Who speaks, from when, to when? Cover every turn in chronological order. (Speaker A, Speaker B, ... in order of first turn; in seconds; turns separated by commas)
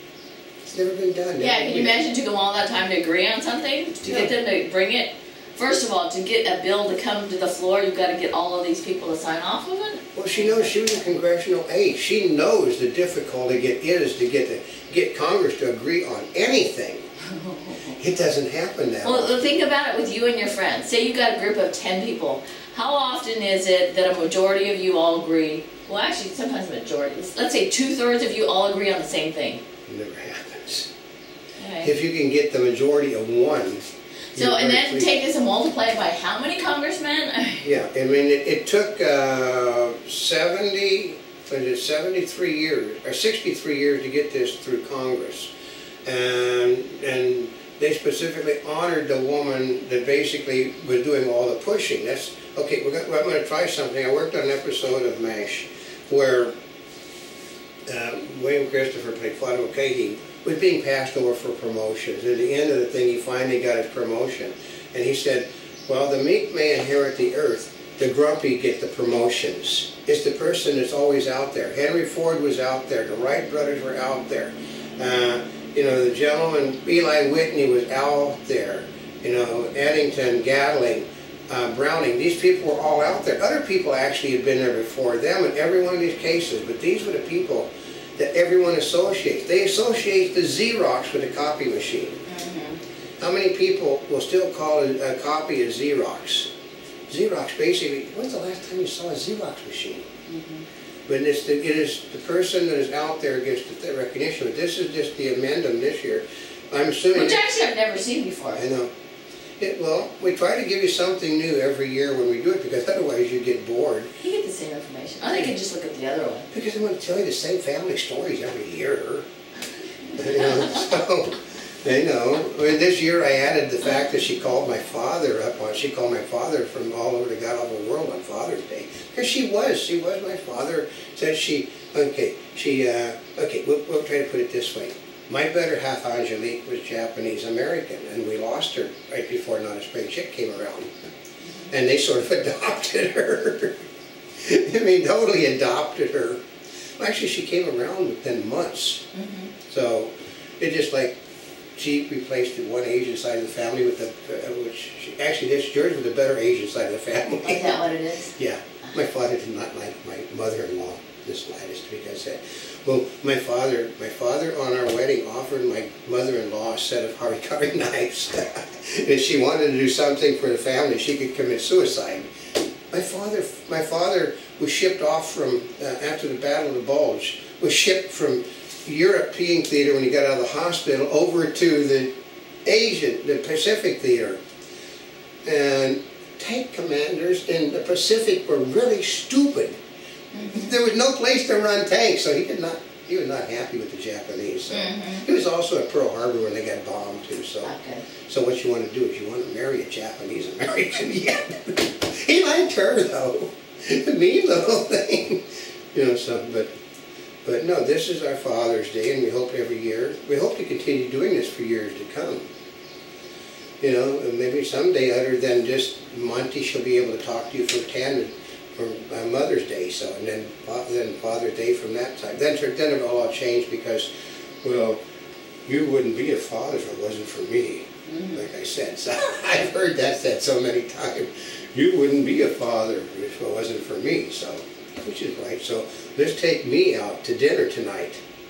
Speaker A: 0.6-1.9, Speaker B: 1.4-10.8, Speaker A: 10.2-17.1, Speaker B: 17.3-17.9, Speaker A: 17.9-19.3, Speaker B: 19.0-29.6, Speaker A: 29.9-30.9, Speaker B: 31.6-31.9, Speaker A: 31.8-33.8, Speaker B: 34.3-37.7, Speaker A: 34.4-35.1, Speaker A: 37.6-45.5, Speaker A: 46.0-56.5, Speaker A: 57.9-92.2, Speaker B: 92.3-92.8, Speaker A: 93.2-96.5, Speaker A: 97.1-100.1, Speaker B: 100.3-100.7, Speaker A: 101.1-107.4, Speaker B: 107.1-108.6, Speaker A: 108.5-108.9, Speaker A: 109.6-114.1, Speaker B: 114.2-116.5, Speaker A: 116.5-119.3, Speaker A: 120.1-140.9, Speaker B: 141.4-141.7, Speaker A: 141.7-143.8, Speaker A: 144.4-146.4, Speaker A: 147.0-149.0, Speaker B: 149.1-149.5, Speaker A: 149.7-151.1, Speaker A: 151.8-172.3, Speaker B: 157.4-158.3, Speaker A: 172.9-182.1, Speaker A: 182.7-184.4, Speaker A: 185.4-189.8, Speaker B: 190.3-190.7, Speaker A: 190.4-197.7, Speaker B: 194.7-195.3, Speaker B: 197.6-198.0, Speaker A: 198.2-206.7, Speaker A: 207.4-212.5, Speaker A: 213.8-224.1, Speaker A: 224.6-225.0, Speaker A: 225.7-238.2, Speaker B: 228.1-228.4